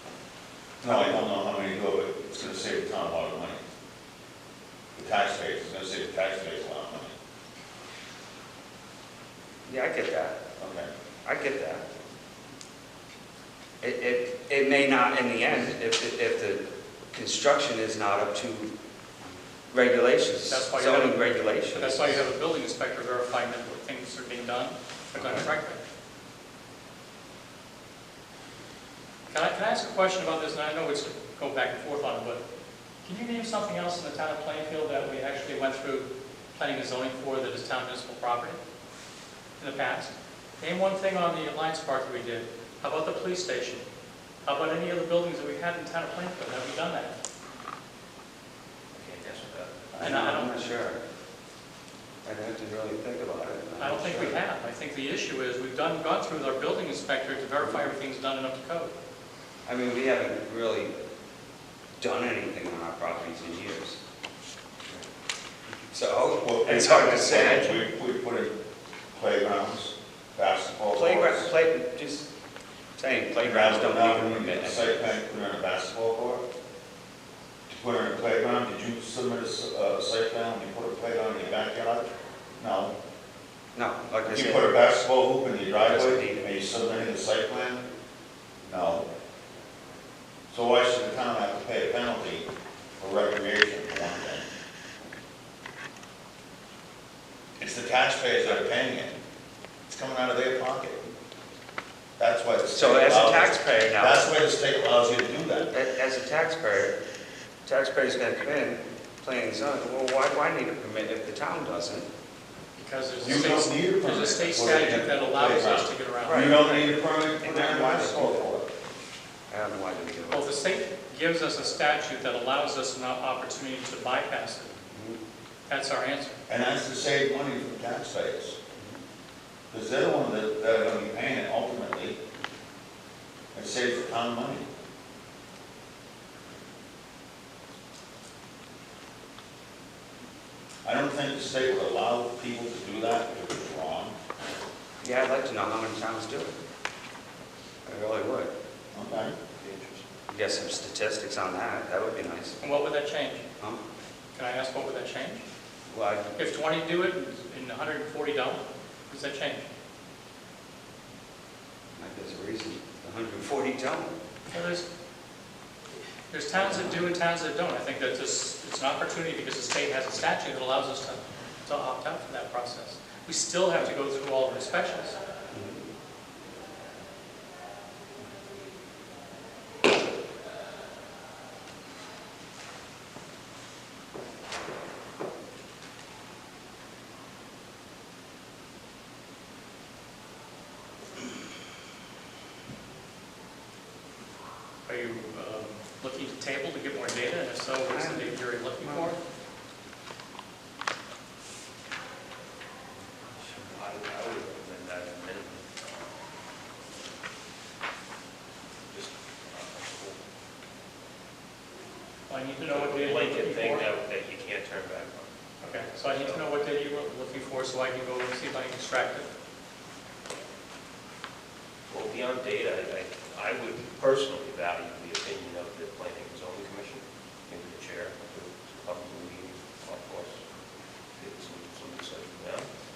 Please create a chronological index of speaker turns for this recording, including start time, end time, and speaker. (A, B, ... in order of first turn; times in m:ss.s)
0:00.8-0:01.2 A
0:00.8-0:03.6 B
0:04.9-0:07.1 B
0:09.6-0:10.4 A
0:10.6-0:10.9 B
0:11.2-0:11.9 A
0:13.8-0:18.7 A
0:19.7-0:22.2 A
0:20.5-0:25.8 C
0:25.2-0:25.5 A
0:29.3-0:32.4 C
0:33.0-0:38.6 C
0:39.6-0:43.8 C
0:44.4-0:47.2 C
0:48.9-0:49.8 D
0:49.9-0:51.0 A
0:50.0-0:50.5 C
0:52.2-0:54.4 A
0:53.8-0:58.9 C
0:59.6-1:00.9 A
1:02.0-1:04.0 A
1:05.9-1:07.8 A
1:06.4-1:08.6 B
1:09.1-1:11.5 B
1:10.9-1:12.3 A
1:13.0-1:15.1 A
1:13.4-1:16.4 B
1:17.7-1:22.9 B
1:23.7-1:24.7 A
1:24.3-1:27.8 B
1:25.8-1:26.7 A
1:28.6-1:29.0 B
1:30.5-1:34.5 B
1:37.6-1:39.2 B
1:39.9-1:41.1 B
1:42.2-1:45.7 B
1:42.7-1:44.3 A
1:45.7-1:47.0 A
1:47.6-1:52.1 A
1:52.8-1:56.6 C
1:53.2-1:58.7 B
1:56.2-1:58.5 A
1:59.5-2:00.6 A
2:00.3-2:04.7 C
2:04.8-2:05.2 A
2:05.7-2:06.4 C
2:06.5-2:08.6 B
2:09.7-2:12.2 B
2:13.5-2:14.6 B
2:20.8-2:24.2 B
2:25.0-2:26.5 A
2:27.8-2:28.5 A
2:28.9-2:29.3 B
2:29.4-2:30.1 D
2:30.3-2:32.6 A
2:32.6-2:33.4 C
2:34.3-2:35.4 C
2:35.9-2:36.4 A
2:36.4-2:39.7 C
2:42.0-2:44.2 A
2:44.5-2:44.8 C
2:46.3-2:55.2 C
2:46.6-2:47.0 A
2:55.5-2:55.8 A
3:14.8-3:19.2 C
3:17.8-3:19.1 A
3:23.4-3:23.7 A
3:23.7-3:25.9 D
3:28.9-3:30.2 D
3:32.3-3:33.9 C
3:32.7-3:36.4 D
3:35.6-3:39.3 C
3:41.9-3:50.4 D
3:51.2-3:52.7 D